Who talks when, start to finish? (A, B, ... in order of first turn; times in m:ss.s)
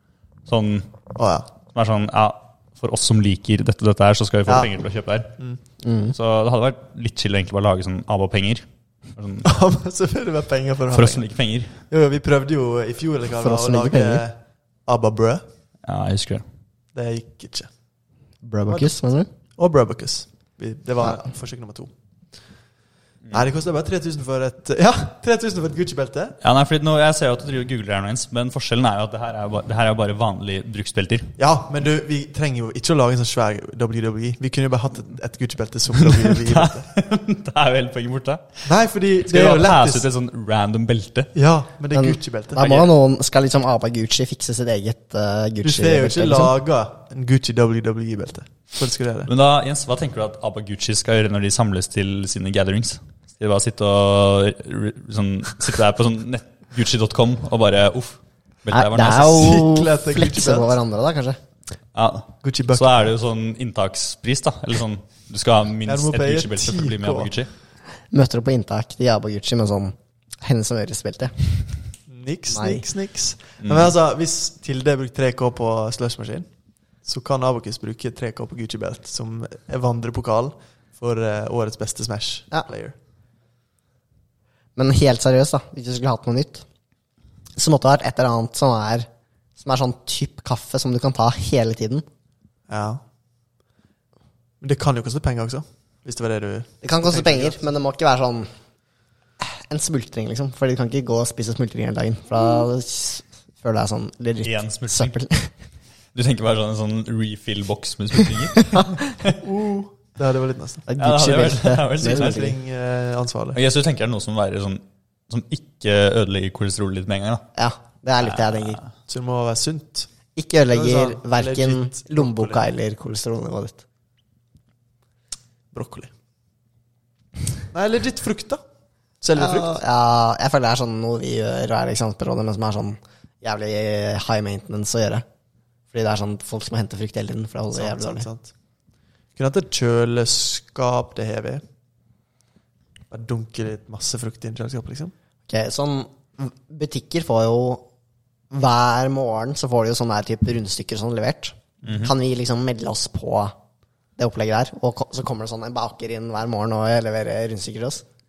0:00.5-0:00.9 A
0:01.2-0:01.5 B
0:01.7-0:05.4 A
0:05.8-0:06.1 C
0:06.1-0:09.5 A
0:09.4-0:11.3 B
0:10.9-0:11.8 A
0:11.9-0:15.4 B
0:13.4-0:14.2 C
0:15.8-0:16.4 A
0:16.9-0:17.7 B
0:18.4-0:19.3 C
0:19.6-0:21.9 B
0:23.3-0:26.4 B
0:26.4-0:31.4 A
0:31.4-0:36.9 B
0:36.0-0:38.6 A
0:38.6-0:40.1 B
0:39.2-0:41.3 A
0:41.3-0:42.6 B
0:41.9-0:46.5 C
0:42.6-0:42.9 A
0:45.6-0:49.3 B
0:49.2-0:59.6 A
0:58.7-1:01.4 C
0:59.1-1:00.8 B
1:01.9-1:07.5 A
1:02.4-1:03.1 B
1:05.8-1:07.3 B
1:08.1-1:11.3 C
1:12.1-1:16.5 B
1:12.5-1:12.8 C
1:13.6-1:13.9 A
1:17.0-1:22.9 B
1:24.8-1:26.6 C
1:27.6-1:29.1 C
1:29.6-1:32.0 C
1:32.7-1:33.0 B
1:34.6-1:37.6 B
1:36.8-1:38.5 C
1:39.4-1:45.5 C
1:44.4-1:45.2 A
1:46.1-1:49.4 A
1:49.4-1:50.9 B
1:50.9-1:52.5 C
1:51.0-1:52.5 A
1:52.0-1:53.6 B
1:53.5-1:57.4 A
1:57.5-1:58.8 C
1:58.2-1:58.9 A
1:59.1-2:00.1 B
2:00.4-2:03.8 C
2:00.7-2:02.6 B
2:05.7-2:06.1 B
2:07.7-2:08.6 B
2:09.2-2:09.8 B
2:09.3-2:15.2 C
2:15.9-2:18.3 C
2:17.7-2:18.5 B
2:19.4-2:21.6 B
2:23.1-2:25.1 B
2:25.5-2:27.8 C
2:28.5-2:33.5 C
2:31.8-2:32.1 A
2:34.2-2:38.0 C